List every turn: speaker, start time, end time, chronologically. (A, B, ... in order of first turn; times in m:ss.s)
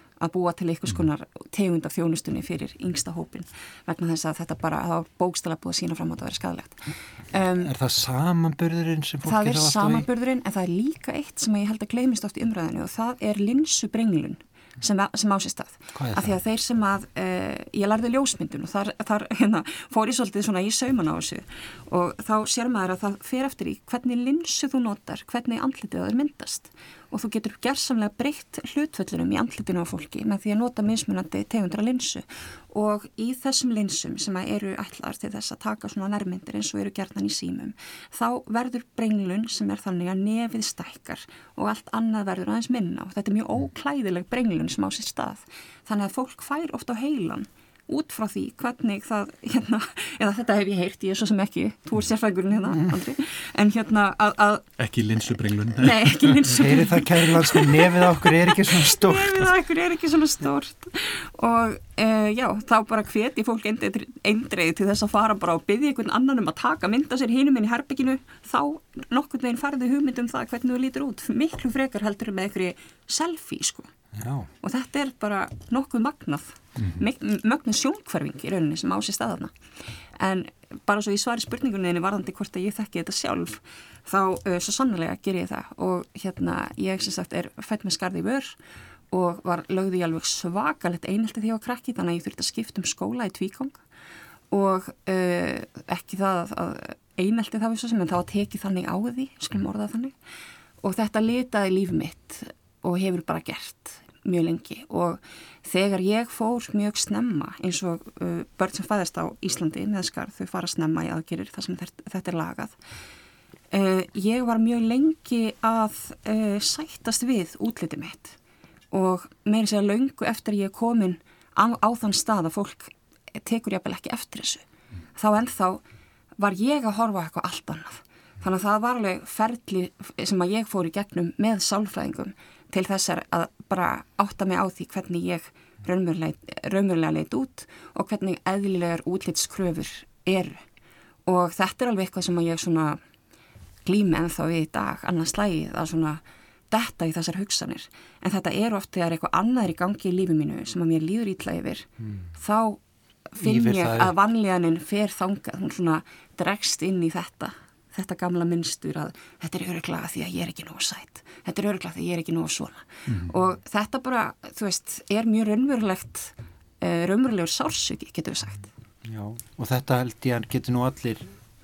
0:00.2-0:07.7 A
0:07.6-0:10.1 B
0:09.2-0:54.7 A
0:15.9-0:16.4 B
0:52.7-0:53.0 B
0:54.8-0:56.6 C
0:55.7-1:13.9 A
0:56.4-0:59.5 B
1:14.1-1:14.5 B
1:14.6-1:19.6 A
1:16.8-1:17.0 C
1:20.2-1:28.6 A
1:29.1-1:33.8 A
1:34.5-1:40.2 A
1:40.8-1:52.8 A
1:53.7-1:58.4 A
1:58.9-2:04.6 A
2:05.2-2:05.8 A
2:06.4-2:20.6 A
2:21.3-2:23.0 A
2:23.8-2:32.8 A
2:33.3-2:48.7 A
2:33.4-2:34.2 B
2:43.1-2:43.3 C
2:49.0-2:51.4 B